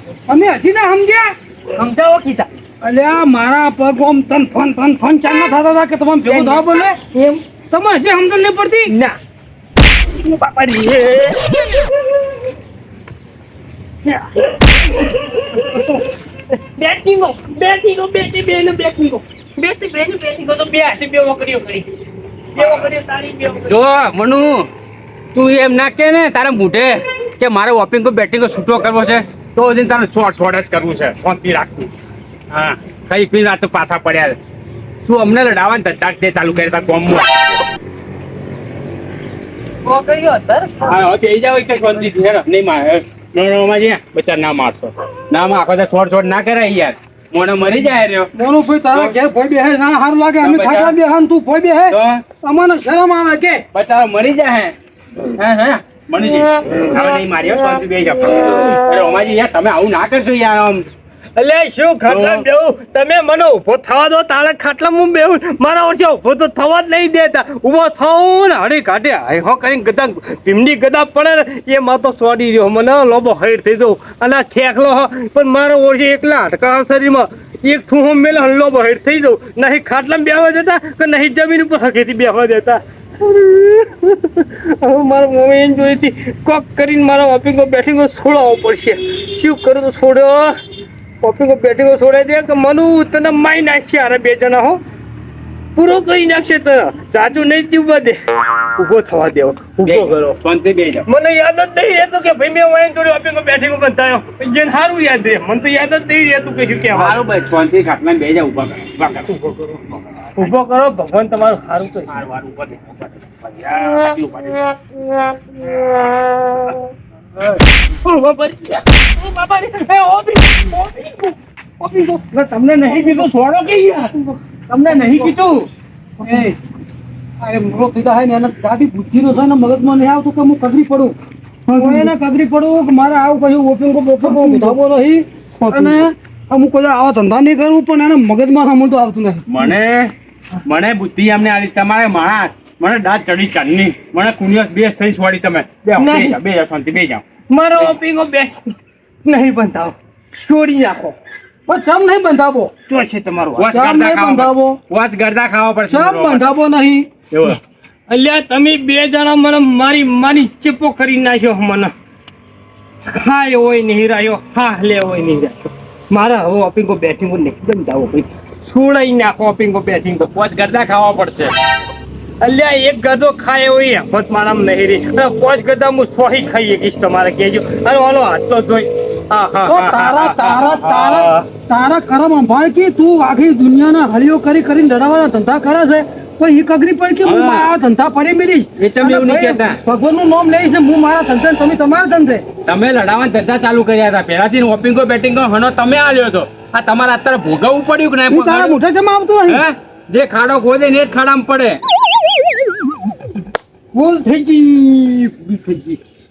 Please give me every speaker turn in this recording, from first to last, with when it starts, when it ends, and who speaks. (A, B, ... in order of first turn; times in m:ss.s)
0:00.3-0:01.3 A
0:01.7-0:02.5 B
0:02.8-0:07.0 A
0:06.2-0:07.4 B
0:07.7-0:08.9 A
0:08.9-0:09.2 B
0:10.1-0:11.6 B
0:14.0-0:21.9 B
0:22.5-0:23.8 B
0:22.6-0:22.8 C
0:23.6-0:24.7 C
0:25.3-0:31.9 C
0:32.5-0:34.4 C
0:35.0-0:37.3 C
0:39.8-0:40.9 B
0:40.8-0:48.3 C
0:48.3-0:53.6 A
0:50.4-0:51.0 C
0:51.9-0:52.2 C
0:53.7-0:54.7 C
0:55.4-1:00.8 C
1:01.4-1:30.6 B
1:02.0-1:02.5 C
1:31.2-1:34.8 B
1:35.8-1:38.2 B
1:38.8-1:40.3 B
1:39.8-1:41.0 C
1:41.1-1:47.2 B
1:46.9-1:49.3 C
1:49.3-1:49.7 B
1:49.9-1:50.5 C
1:50.4-1:52.2 B
1:52.1-1:54.7 C
1:55.7-1:56.0 C
1:57.4-1:57.6 C
1:58.0-2:02.2 B
2:02.3-2:04.2 C
2:04.7-2:05.4 C
2:04.9-2:05.6 B
2:06.2-2:06.6 A
2:07.4-2:11.1 A
2:11.7-2:12.1 B
2:11.7-2:19.4 A
2:14.2-2:14.8 B
2:15.6-2:16.1 B
2:19.5-2:20.1 C
2:20.6-2:27.2 C
2:26.0-2:26.4 B
2:27.5-2:28.7 B
2:29.2-2:31.2 B
2:31.7-2:32.7 A
2:32.9-2:33.7 B
2:33.6-2:36.5 C
2:33.7-2:34.8 A
2:35.9-2:37.1 A
2:37.3-2:37.6 C
2:38.1-2:41.9 B
2:43.1-2:50.3 B
2:50.2-2:51.6 C
2:52.4-3:01.5 B
2:59.6-3:12.4 A
3:07.2-3:07.7 C
3:08.8-3:09.8 C
3:12.6-3:18.8 C
3:18.3-3:19.6 A
3:19.5-3:21.8 C
3:23.9-3:26.0 B